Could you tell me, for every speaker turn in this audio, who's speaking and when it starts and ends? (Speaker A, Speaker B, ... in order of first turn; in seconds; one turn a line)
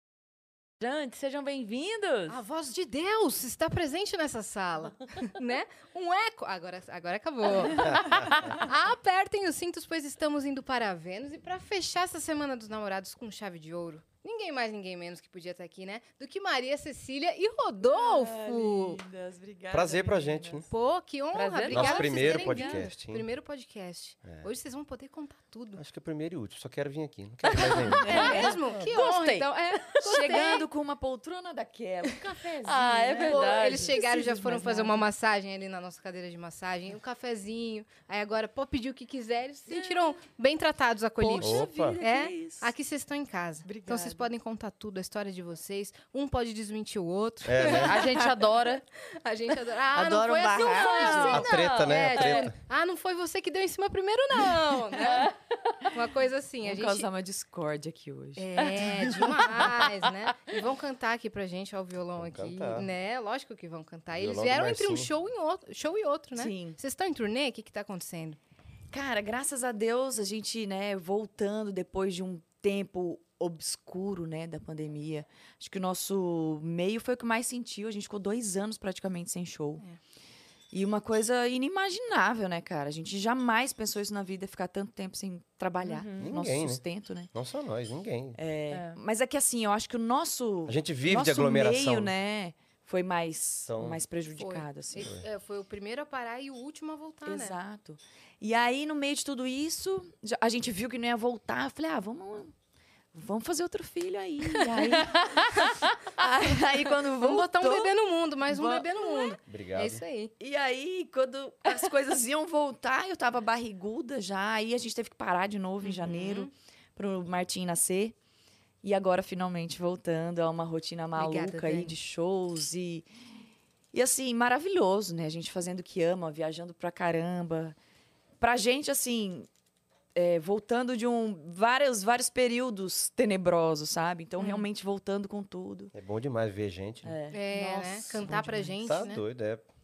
Speaker A: 0.8-2.4
Speaker B: 2.3-19.0
Speaker C: 17.8-20.7
Speaker D: 19.7-20.7
Speaker B: 20.7-25.8
Speaker A: 21.3-22.1
Speaker D: 21.7-23.2
Speaker C: 22.1-22.8
Speaker D: 25.8-29.0
Speaker A: 27.5-30.5
Speaker B: 27.9-30.7
Speaker C: 28.0-28.6
Speaker C: 30.0-35.1
Speaker B: 32.0-32.3
Speaker A: 32.6-34.0
Speaker B: 33.3-48.1
Speaker C: 39.7-40.0
Speaker C: 41.2-42.7
Speaker D: 41.4-42.0
Speaker C: 43.6-44.3
Speaker D: 47.4-48.0
Speaker A: 47.6-48.8
Speaker B: 49.2-55.3
Speaker C: 49.9-51.4
Speaker A: 50.5-52.5
Speaker D: 51.3-52.5
Speaker B: 55.9-57.1
Speaker C: 56.6-59.8
Speaker B: 58.4-68.4
Speaker D: 62.2-62.9
Speaker D: 64.1-65.1
Speaker C: 66.3-66.8
Speaker C: 68.9-79.8
Speaker C: 80.7-87.3
Speaker A: 85.8-86.3
Speaker D: 86.2-86.8
Speaker D: 87.3-88.4
Speaker C: 88.3-95.1
Speaker A: 88.7-89.0
Speaker D: 90.7-92.1
Speaker D: 93.7-94.0
Speaker B: 94.4-97.6
Speaker C: 97.2-102.5
Speaker C: 103.1-107.9
Speaker B: 107.2-110.3
Speaker C: 108.5-109.3
Speaker D: 109.5-110.0
Speaker C: 110.4-118.1
Speaker B: 115.8-116.5
Speaker C: 118.8-123.0
Speaker B: 121.2-122.0
Speaker C: 123.9-127.8
Speaker C: 128.4-129.5
Speaker C: 130.1-135.9
Speaker D: 135.9-137.2
Speaker C: 137.0-138.8
Speaker B: 137.3-139.2
Speaker D: 138.8-139.6